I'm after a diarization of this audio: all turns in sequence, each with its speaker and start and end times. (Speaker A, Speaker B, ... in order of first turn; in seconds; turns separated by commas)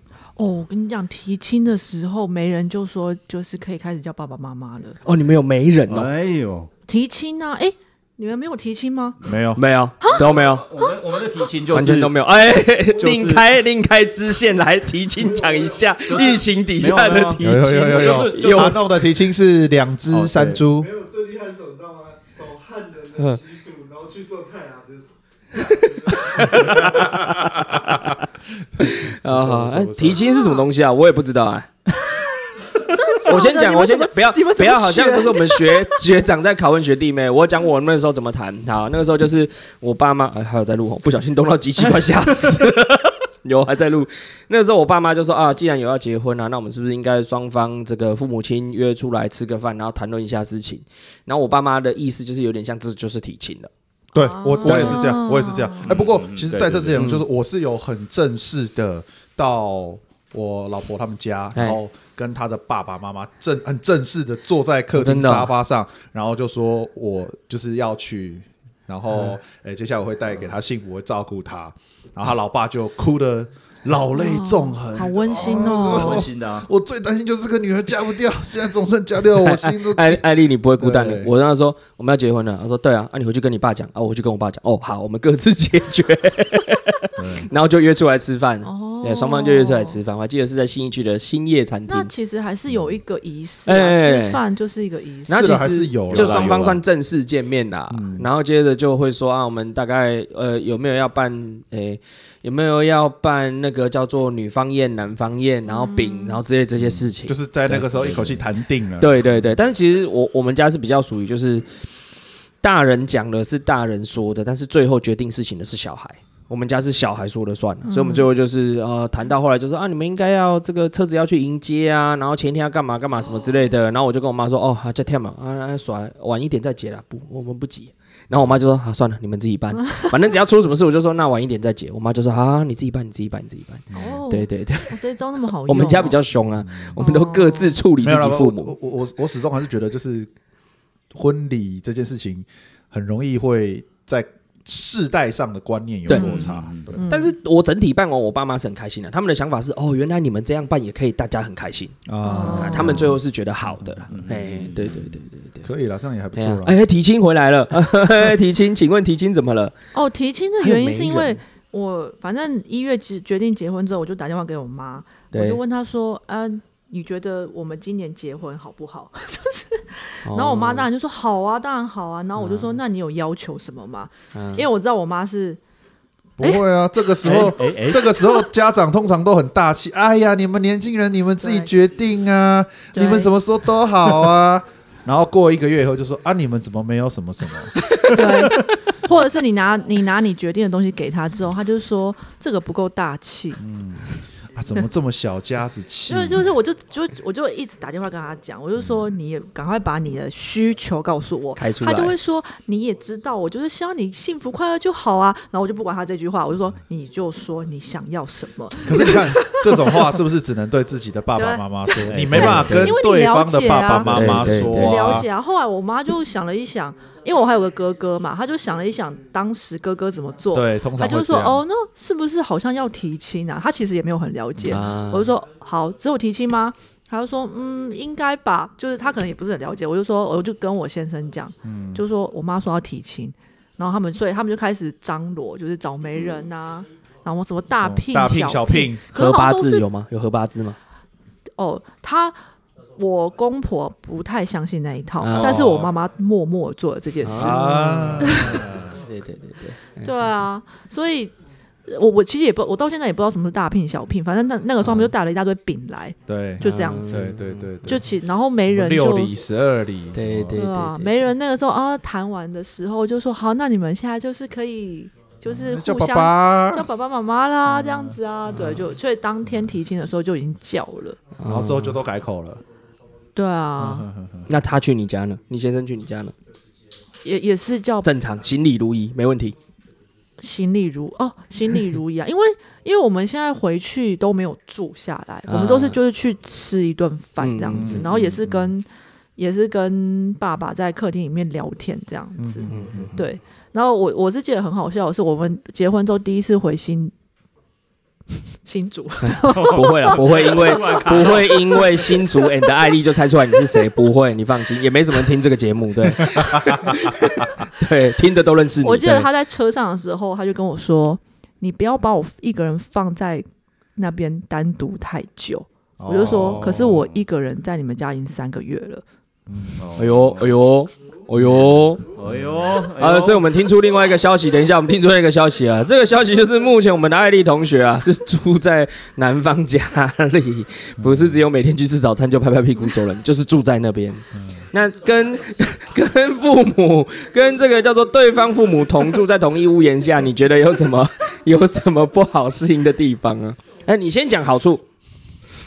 Speaker A: 0.3-5.0, Speaker B: 5.0-6.1, Speaker C: 5.9-6.7, Speaker A: 6.9-9.2, Speaker D: 9.2-9.6, Speaker B: 9.6-10.7, Speaker C: 10.1-12.1, Speaker B: 11.7-18.8, Speaker C: 13.0-13.5, Speaker E: 15.1-16.3, Speaker C: 16.1-18.8, Speaker D: 17.4-20.9, Speaker C: 20.1-20.6, Speaker E: 20.7-26.7, Speaker B: 26.1-28.2, Speaker D: 26.5-28.0, Speaker D: 28.8-30.2, Speaker B: 28.8-31.7, Speaker A: 30.1-30.6, Speaker A: 32.1-36.0, Speaker B: 33.2-53.7, Speaker D: 54.1-80.2, Speaker A: 54.1-55.9, Speaker B: 54.7-54.9, Speaker C: 55.8-57.0, Speaker B: 56.9-57.2, Speaker B: 61.5-61.8, Speaker B: 65.0-65.5, Speaker A: 74.1-76.2, Speaker C: 75.4-76.7, Speaker B: 79.4-92.1, Speaker D: 80.8-81.3, Speaker D: 87.2-87.5, Speaker A: 88.6-90.0, Speaker A: 91.9-95.7, Speaker B: 93.7-94.4, Speaker B: 95.3-108.4, Speaker D: 95.3-96.7, Speaker C: 96.1-96.8, Speaker D: 97.9-98.3, Speaker A: 105.7-106.4, Speaker D: 106.8-109.2, Speaker B: 109.0-111.7, Speaker B: 112.6-135.0, Speaker A: 117.9-118.3, Speaker A: 133.9-136.2, Speaker B: 135.5-138.8, Speaker D: 136.6-137.0, Speaker A: 137.0-137.8, Speaker D: 138.0-140.3, Speaker D: 141.1-147.0, Speaker C: 146.1-147.0, Speaker A: 146.9-147.3, Speaker B: 147.0-155.7, Speaker D: 152.1-153.0, Speaker A: 152.2-153.2, Speaker C: 154.1-155.2, Speaker D: 155.6-156.8, Speaker B: 156.3-159.7, Speaker A: 159.9-175.6, Speaker B: 160.6-161.4, Speaker B: 165.3-165.6, Speaker B: 170.2-170.9, Speaker B: 172.4-172.7, Speaker B: 174.3-174.7, Speaker D: 176.4-188.2, Speaker A: 176.4-177.5, Speaker C: 177.2-178.1, Speaker A: 178.1-178.5, Speaker A: 181.4-181.7, Speaker A: 182.9-183.3, Speaker A: 188.0-193.6, Speaker D: 193.6-196.5, Speaker A: 196.1-210.2, Speaker B: 201.6-202.1, Speaker D: 208.8-215.3, Speaker A: 211.3-239.8, Speaker C: 212.0-212.9, Speaker B: 214.0-215.2, Speaker D: 220.5-221.6, Speaker B: 224.6-225.3, Speaker D: 231.6-232.0, Speaker D: 237.8-239.0, Speaker B: 239.1-240.8, Speaker A: 241.6-242.3, Speaker A: 243.0-248.6, Speaker B: 245.2-245.7, Speaker D: 245.3-245.9, Speaker B: 247.2-250.1, Speaker D: 247.3-249.0, Speaker A: 250.0-251.3, Speaker A: 251.9-257.3, Speaker B: 254.8-255.1, Speaker D: 256.3-258.1, Speaker B: 256.6-257.9, Speaker A: 257.8-259.3, Speaker D: 258.7-260.5, Speaker B: 260.1-261.2, Speaker A: 260.5-271.2, Speaker D: 265.5-266.9, Speaker D: 267.6-268.2, Speaker B: 268.5-268.9, Speaker B: 271.4-272.0, Speaker D: 271.4-272.6, Speaker A: 273.3-274.1, Speaker D: 273.8-274.5, Speaker B: 274.5-276.3, Speaker A: 277.2-278.1, Speaker B: 278.0-279.5, Speaker A: 280.4-288.9, Speaker B: 285.5-286.0, Speaker B: 287.4-288.1, Speaker D: 287.7-288.7, Speaker A: 289.4-297.1, Speaker D: 292.4-293.2, Speaker A: 298.6-301.3, Speaker B: 299.2-309.3, Speaker C: 299.5-302.0, Speaker D: 306.2-307.5, Speaker A: 308.8-319.0, Speaker D: 316.0-317.2, Speaker D: 319.5-319.9, Speaker C: 319.8-320.5, Speaker B: 319.9-322.0, Speaker D: 321.4-322.8, Speaker C: 322.1-323.5, Speaker B: 322.9-344.8, Speaker D: 331.0-331.4